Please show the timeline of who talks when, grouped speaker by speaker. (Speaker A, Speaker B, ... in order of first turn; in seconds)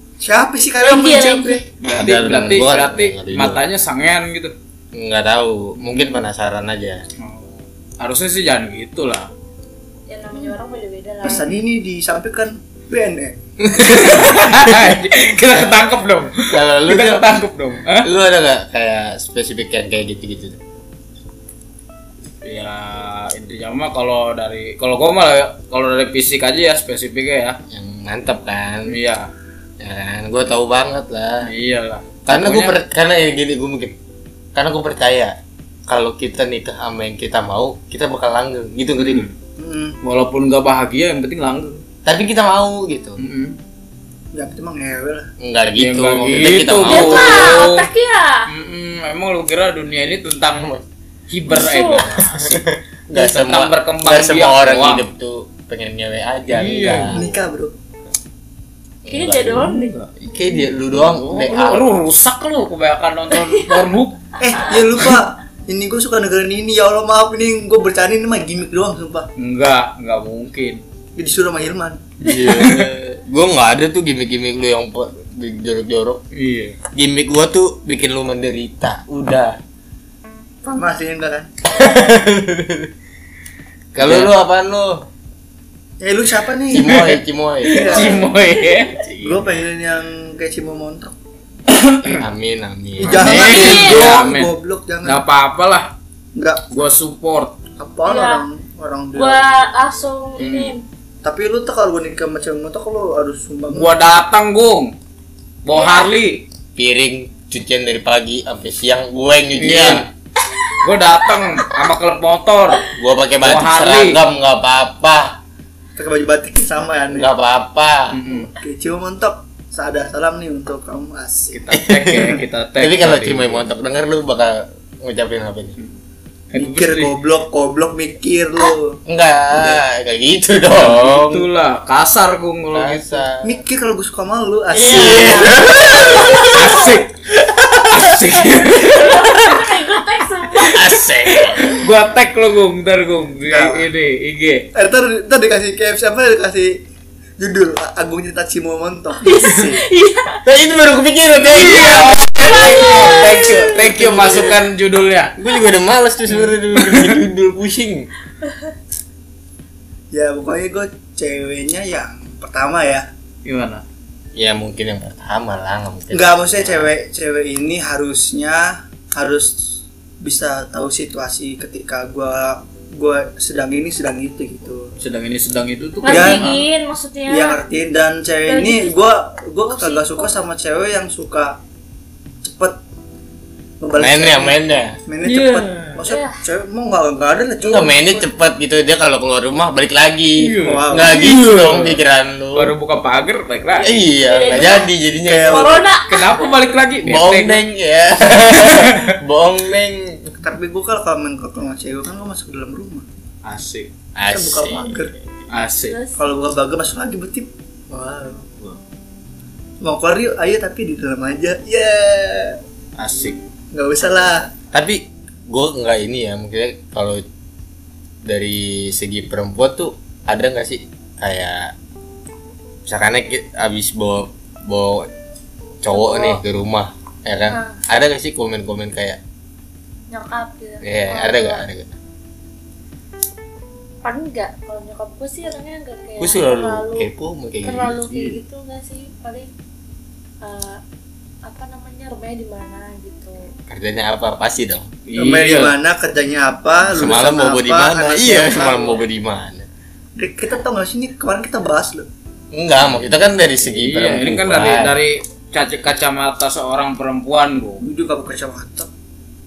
Speaker A: 0.2-1.6, 11.2-13.4, 39.6-40.0, 44.3-45.3, 57.1-57.7, 64.4-69.3, 71.2-72.1, 80.6-81.5, 86.0-87.1, 87.7-88.3, 89.2-91.1, 93.0-95.2, 96.3-96.7, 97.8-99.5, 101.2-104.0, 116.0-117.3, 118.3-121.6, 126.5-129.0, 133.4-135.7, 143.4-143.9, 144.8-146.8, 147.4-149.8, 160.1-163.1, 166.1-174.9, 176.1-176.7, 177.3-181.6, 182.4-182.8, 183.8-188.3, 190.6-191.3, 195.3-195.8, 200.4-203.1, 204.3-205.1, 206.2-208.4, 209.8-212.6, 213.7-214.5, 245.2-249.0, 250.2-252.1, 257.8-258.9
Speaker B: 0.8-1.6, 10.1-11.5, 46.9-48.5, 51.5-52.1, 59.1-59.9, 93.3-94.2, 98.1-98.5, 99.2-100.8, 105.7-106.1, 134.7-136.9, 138.7-140.9, 149.2-150.4, 152.4-153.3, 176.0-177.6, 178.5-179.0, 179.7-180.4, 186.1-186.4, 194.2-194.9, 195.4-196.4, 205.9-206.2, 225.9-226.4, 227.5-227.8, 230.1-231.7, 234.0-237.1, 237.6-239.5, 240.4-240.8, 241.4-243.5
Speaker C: 1.8-4.5, 5.8-6.0, 7.2-9.3, 13.8-18.1, 22.4-27.6, 28.9-29.3, 31.4-32.8, 39.0-39.4, 40.0-41.8, 43.2-43.6, 45.8-47.9, 48.5-50.8, 51.3-52.5, 53.1-55.1, 56.5-57.2, 59.6-60.1, 60.9-64.3, 69.4-70.8, 72.3-72.9, 76.3-76.8, 84.0-84.3, 87.7-89.2, 91.7-92.2, 93.0-95.9, 96.7-97.6, 100.4-100.7, 103.7-104.9, 105.6-106.5, 109.6-110.1, 110.8-112.9, 113.4-114.2, 118.1-118.5, 121.5-123.6, 126.5-127.2, 130.7-133.2, 136.5-139.6, 141.6-144.7, 151.4-155.3, 156.3-157.2, 163.4-163.8, 175.0-176.6, 185.2-186.0, 190.4-192.0, 192.5-193.9, 196.1-197.6, 198.4-199.2, 203.4-203.9, 205.5-206.0, 213.0-213.4, 238.1-238.4, 245.1-245.8, 253.7-257.8
Speaker D: 1.9-3.6, 4.9-7.0, 13.6-14.9, 16.5-17.3, 18.0-20.6, 27.7-29.0, 29.8-31.5, 32.3-34.0, 34.5-35.4, 35.9-39.3, 42.0-43.2, 45.4-47.6, 52.0-57.4, 59.0-61.9, 72.2-76.2, 76.9-79.6, 81.7-82.9, 83.9-85.0, 86.7-88.1, 92.2-93.6, 106.8-110.1, 112.9-115.4, 117.1-118.2, 121.7-125.8, 129.1-131.5, 132.7-133.6, 134.8-136.8, 137.8-138.1, 140.7-141.7, 150.5-154.6, 155.4-158.1, 164.4-166.9, 184.0-185.0, 187.6-192.8, 193.8-195.8, 197.0-200.3, 204.2-205.1, 214.7-217.2, 218.2-221.7, 222.9-225.1, 225.8-229.2, 230.8-231.9, 236.2-238.0, 243.7-244.9, 246.9-249.7, 252.5-254.9